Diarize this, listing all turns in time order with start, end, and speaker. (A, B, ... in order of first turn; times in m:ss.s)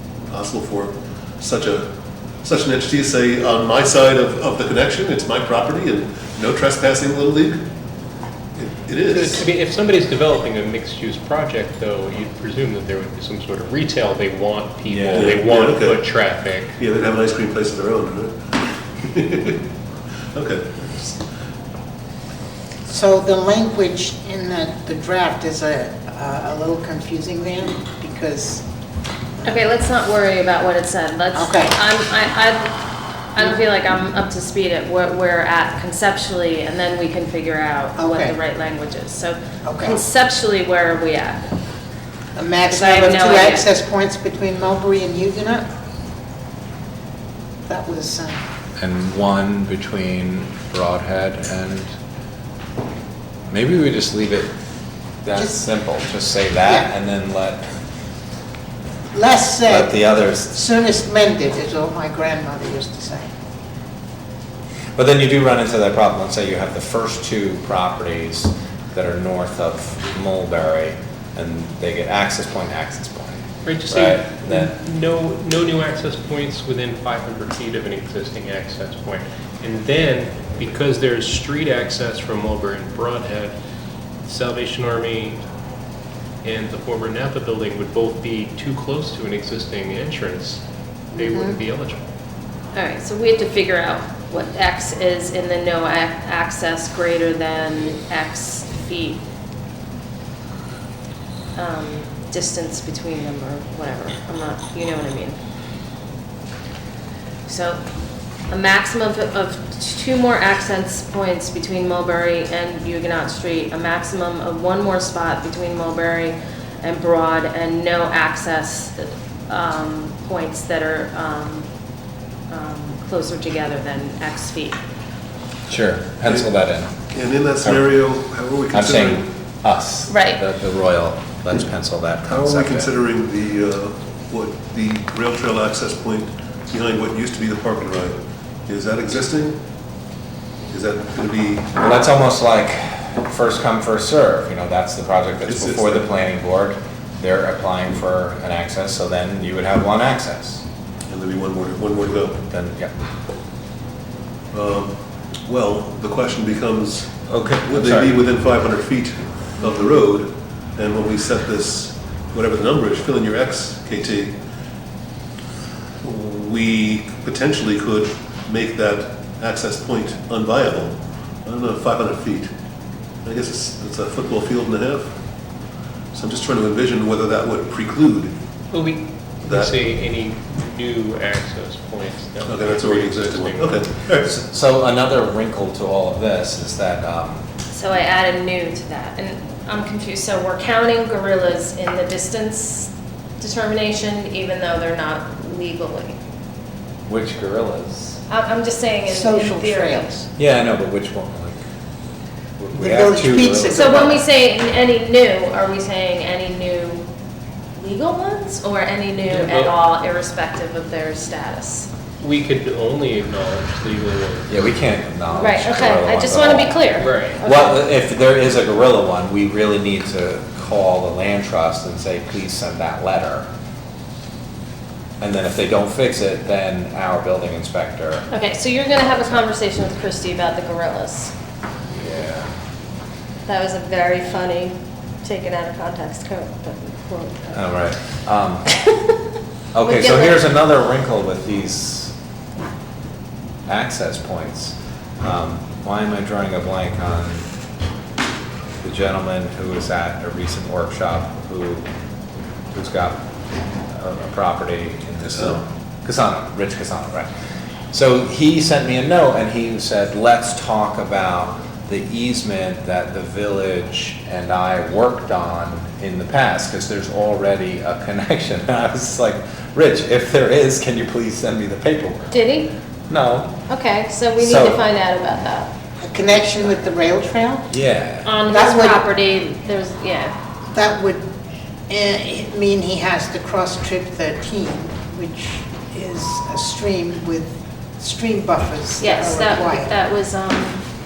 0:00.3-0:01.9 A
0:02.4-0:07.6 A
0:08.6-0:09.4 A
0:09.1-0:16.8 B
0:14.9-0:15.3 C
0:15.1-0:16.0 A
0:16.8-0:19.6 A
0:20.3-0:21.2 A
0:22.9-0:28.6 D
0:29.4-0:32.8 E
0:31.3-0:31.8 D
0:33.4-0:41.5 E
0:38.0-0:38.4 D
0:39.6-0:40.0 D
0:42.4-0:45.6 D
0:42.7-0:43.7 E
0:47.7-0:48.4 D
0:48.8-0:51.9 C
0:53.5-0:54.5 C
0:55.2-0:57.6 C
0:59.1-1:03.3 D
0:59.7-1:00.6 C
1:05.0-1:14.7 C
1:13.6-1:23.5 B
1:24.3-1:25.4 B
1:26.4-1:30.6 B
1:31.1-1:31.6 D
1:31.1-1:32.0 B
1:32.7-1:39.2 E
1:41.6-1:45.4 E
1:47.5-1:47.8 E
1:48.5-2:01.7 E
2:02.5-2:04.8 E
2:05.7-2:07.0 C
2:07.1-2:09.3 A
2:07.6-2:07.9 C
2:08.7-2:12.9 C
2:10.1-2:10.4 E
2:12.3-2:19.6 A
2:20.7-2:21.7 A
2:21.8-2:30.6 C
2:25.5-2:26.1 A
2:31.1-2:32.4 A
2:32.5-2:32.9 C
2:34.5-2:34.9 A
2:35.5-2:44.4 A
2:37.3-2:38.2 C
2:46.0-2:52.5 A
2:53.2-2:55.2 A
2:56.1-2:58.3 A
2:58.7-3:03.8 B
2:59.4-2:59.7 A
3:02.4-3:04.3 A
3:04.2-3:07.5 C
3:07.7-3:16.2 E
3:17.1-3:18.2 C
3:18.3-3:20.1 E
3:19.1-3:20.2 D
3:20.4-3:21.6 C
3:22.6-3:24.2 C
3:22.8-3:24.2 D
3:23.7-3:27.1 E
3:27.8-3:31.9 E
3:29.3-3:29.8 B
3:32.2-3:34.5 B
3:34.5-3:43.5 C
3:35.3-3:37.8 E
3:37.0-3:37.4 B
3:45.2-3:48.3 C
3:48.3-3:51.3 E
3:49.0-3:49.5 C
3:51.9-3:52.5 C
3:53.5-3:57.6 E
3:57.5-3:58.7 C
3:59.7-4:02.1 C
3:59.8-4:00.5 E
4:03.7-4:07.5 C
4:08.8-4:11.9 C
4:12.7-4:13.2 C
4:13.9-4:17.3 C
4:15.3-4:15.6 A
4:17.9-4:32.4 C
4:32.3-4:32.7 E
4:33.1-4:33.6 C
4:33.7-4:35.7 E
4:34.4-4:34.8 C
4:36.0-4:37.7 D
4:37.7-4:38.4 C
4:38.2-4:40.4 E
4:38.5-4:39.1 D
4:40.7-4:41.2 D
4:41.9-4:50.0 D
4:49.0-4:50.8 E